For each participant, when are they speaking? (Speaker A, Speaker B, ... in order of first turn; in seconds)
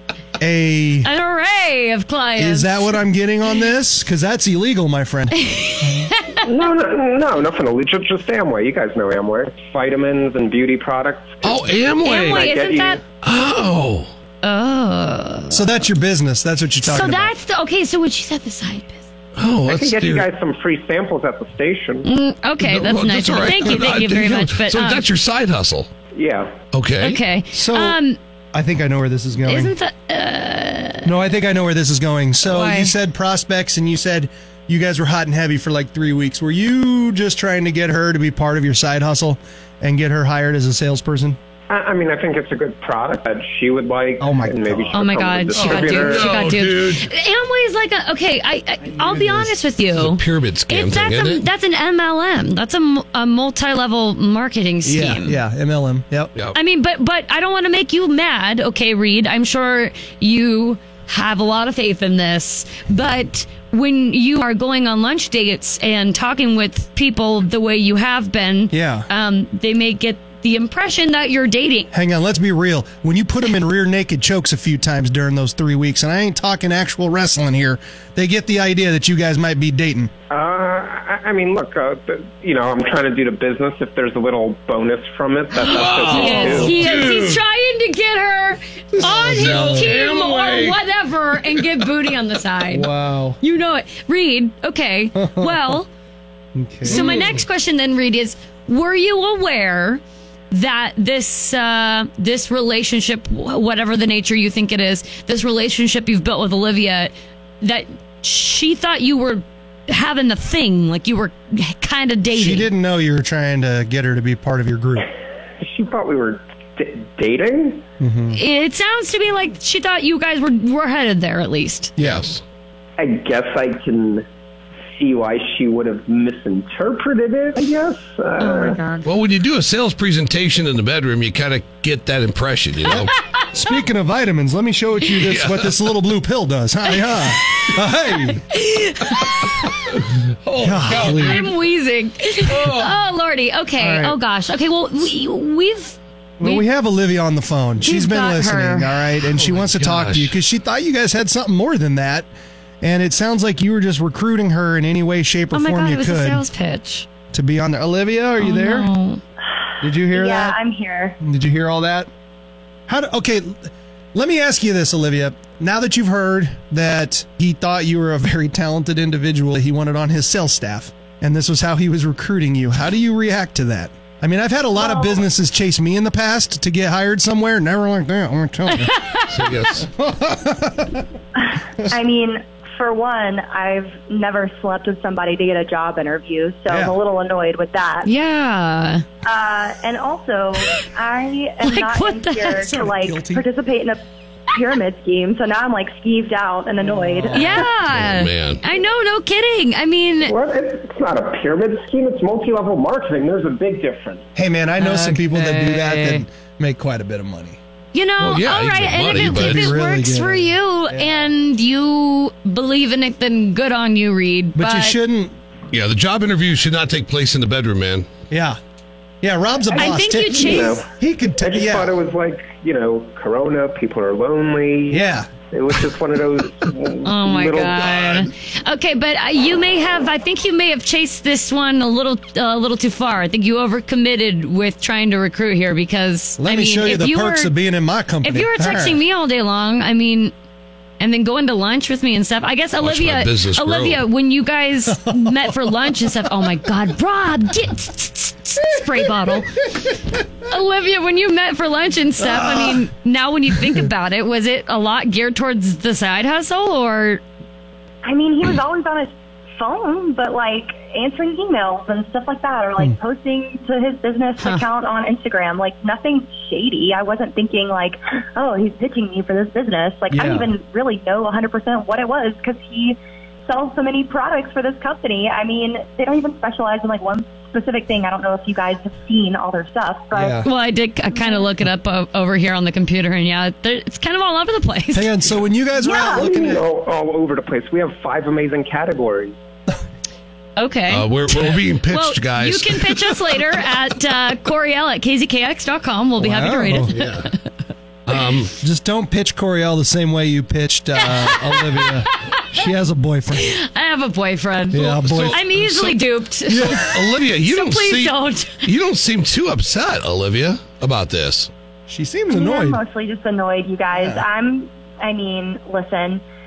Speaker A: 0.4-1.1, 2.4-5.9, 15.5-17.3, 27.5-28.0, 28.5-29.8, 31.0-41.4, 44.2-45.0, 48.9-49.6, 54.8-56.3, 68.7-69.1, 71.9-80.1, 89.0-90.0, 92.7-93.4, 95.2-95.8, 96.6-97.4, 112.3-115.1, 118.0-118.4, 122.0-122.3, 132.9-138.4, 140.6-141.5, 143.8-144.2, 146.4-152.3, 152.8-156.4, 157.3-158.9, 159.8-160.6, 161.2-162.1, 162.9-178.9, 179.8-181.1, 186.7-187.0, 192.6-193.5, 197.0-197.7, 204.4-207.6, 209.2-211.3, 214.6-215.4, 218.3-218.6, 219.2-221.9, 224.9-225.3, 236.4-239.0, 244.9-245.6, 248.7-249.8, 252.2-252.8, 253.5-253.9, 270.1-270.5, 280.1-280.5, 284.9-286.6, 296.2-296.9, 298.6-303.5, 304.7-305.4, 306.5-307.0, 311.9-312.8, 313.9-314.2
Speaker B: 1.0-3.0, 5.4-6.4, 12.0-13.0, 14.4-15.8, 16.8-19.0, 22.0-25.1, 27.0-28.2, 29.5-31.1, 32.4-33.0, 44.9-55.4, 56.5-71.9, 85.6-95.9, 96.8-112.7, 118.3-121.9, 128.4-129.1, 137.1-137.7, 138.3-139.8, 140.9-146.7, 147.8-149.0, 155.5-157.1, 158.4-159.2, 178.7-179.3, 188.1-189.1, 191.6-192.6, 197.3-200.3, 204.8-206.2, 207.9-215.0, 219.8-220.8, 227.1-237.5, 238.2-240.3, 241.0-249.6, 250.4-257.2, 280.4-285.1, 290.6-297.4, 301.0-302.4, 303.4-308.7
Speaker C: 6.5-13.0, 19.7-22.1, 26.1-26.5, 41.7-46.5, 80.3-87.0, 115.6-117.8, 123.0-124.3, 125.0-128.8, 200.2-204.2, 220.3-220.9, 221.4-228.2, 286.1-289.4
Speaker D: 11.4-12.4, 13.2-14.1, 19.4-20.3, 22.6-25.9, 26.7-27.2, 45.5-47.1, 49.9-51.5, 85.6-87.4, 89.0-90.8, 91.4-91.7, 96.9-97.4, 122.0-122.4, 129.1-133.1, 135.2-135.9, 139.4-141.5, 142.5-143.0, 149.3-150.4, 179.3-179.9, 197.7-198.6, 208.2-209.8, 215.7-218.1, 242.8-244.1, 290.9-293.6, 296.9-297.3, 298.1-298.6, 305.0-311.5
Speaker E: 160.1-161.2, 174.8-175.2, 181.4-188.1, 189.2-194.0, 194.5-197.7, 258.0-280.4, 285.8-286.3, 312.3-316.2